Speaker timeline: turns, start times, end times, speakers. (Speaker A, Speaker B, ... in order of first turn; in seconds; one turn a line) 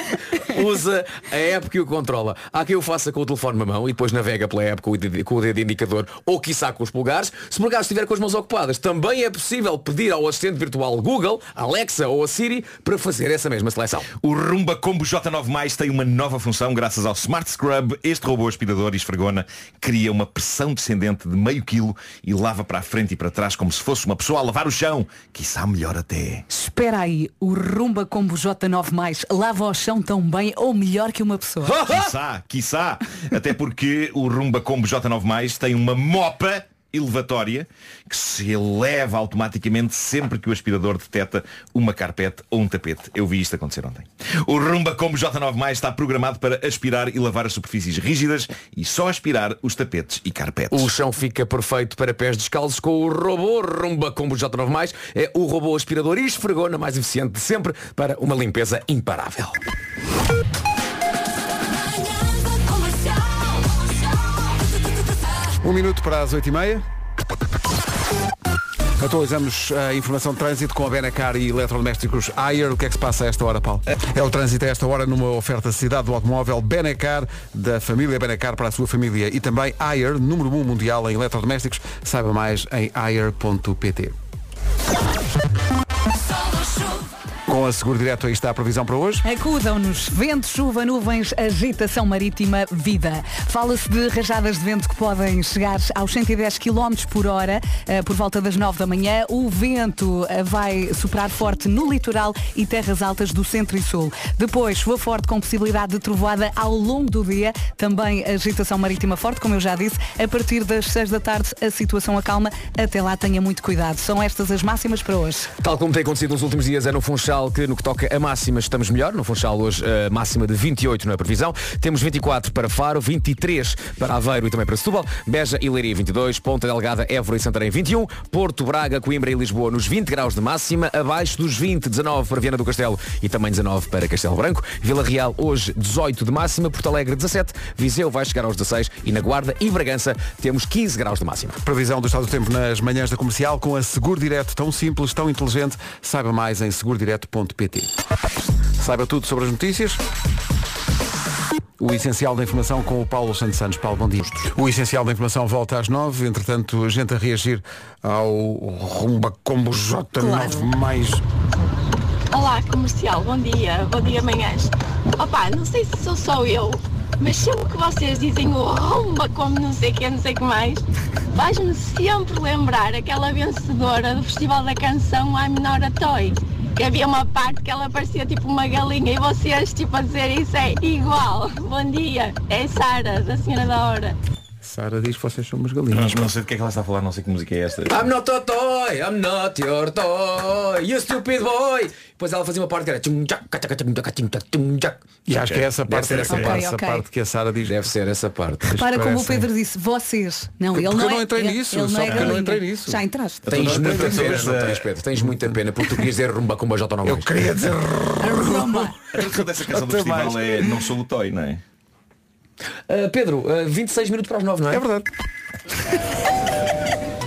Speaker A: 0.3-14.1
Speaker B: 14.2-26.4
Speaker C: 26.5-31.8
Speaker A: 31.6-32.1
Speaker B: 31.9-50.9
Speaker A: 50.7-59.6
Speaker D: 65.6-66.8
Speaker D: 69.0-84.2
Speaker D: 87.5-89.2
Speaker C: 89.2-115.5
Speaker A: 115.6-141.6
Speaker D: 141.6-147.9
Speaker D: 148.8-150.0
Speaker D: 151.8-161.2
Speaker C: 160.2-160.7
Speaker E: 162.3-184.2
Speaker D: 184.6-186.3
Speaker B: 185.9-187.9
Speaker A: 187.9-195.1
Speaker D: 195.3-197.8
Speaker B: 195.4-196.6
Speaker A: 195.9-196.4
Speaker C: 196.3-197.1
Speaker A: 197.7-198.7
Speaker D: 198.7-199.5
Speaker C: 198.8-203.4
Speaker D: 200.7-205.5
Speaker B: 202.1-202.4
Speaker B: 203.5-204.8
Speaker A: 203.5-207.5
Speaker D: 207.0-210.7
Speaker C: 208.2-208.9
Speaker B: 209.1-211.6
Speaker A: 212.9-214.8
Speaker D: 214.7-215.1